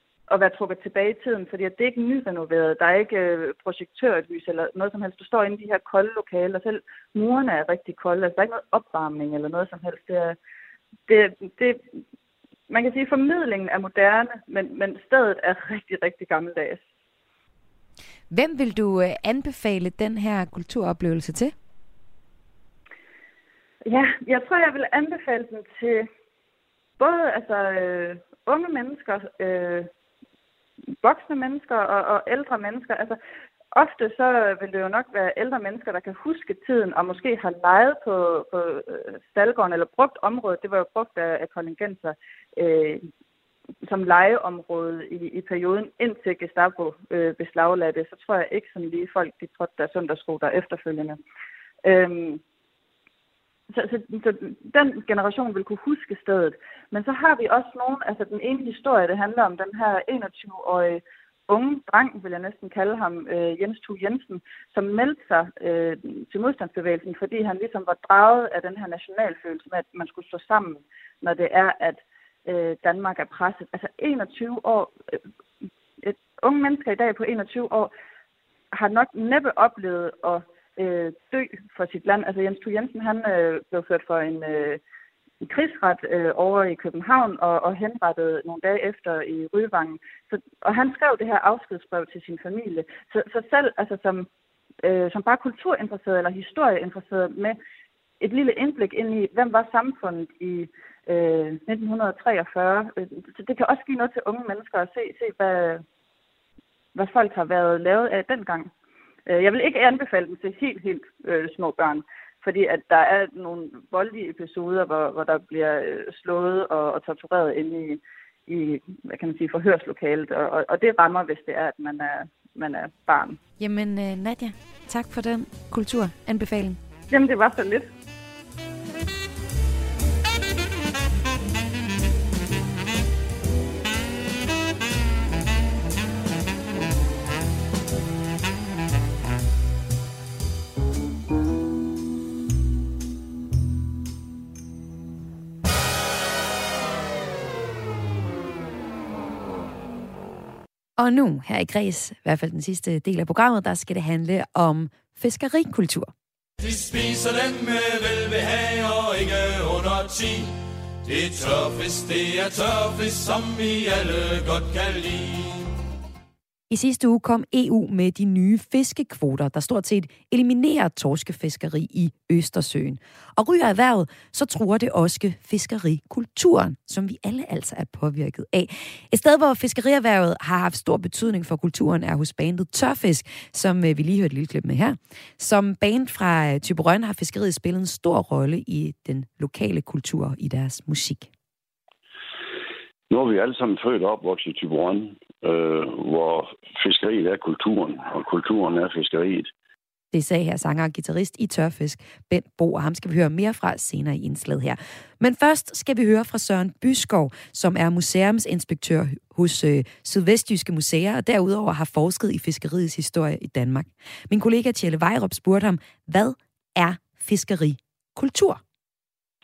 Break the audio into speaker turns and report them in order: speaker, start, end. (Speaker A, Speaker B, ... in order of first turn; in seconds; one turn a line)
Speaker A: 0.3-10.4
Speaker A: 11.1-11.8
Speaker A: 12.7-16.8
Speaker B: 18.3-21.5
Speaker A: 23.8-26.1
Speaker A: 27.0-29.9
Speaker A: 31.0-33.2
Speaker A: 33.7-43.0
Speaker A: 43.8-51.2
Speaker A: 51.8-52.4
Speaker A: 53.7-74.9
Speaker A: 76.0-77.9
Speaker A: 78.7-84.8
Speaker A: 85.4-94.3
Speaker A: 94.8-97.6
Speaker A: 98.2-105.8
Speaker A: 106.9-108.7
Speaker A: 109.3-123.4
Speaker B: 123.6-126.8
Speaker A: 127.1-127.9
Speaker B: 151.0-156.1
Speaker C: 156.6-165.7
Speaker B: 166.7-191.3
Speaker D: 193.1-199.5
Speaker B: 200.1-218.6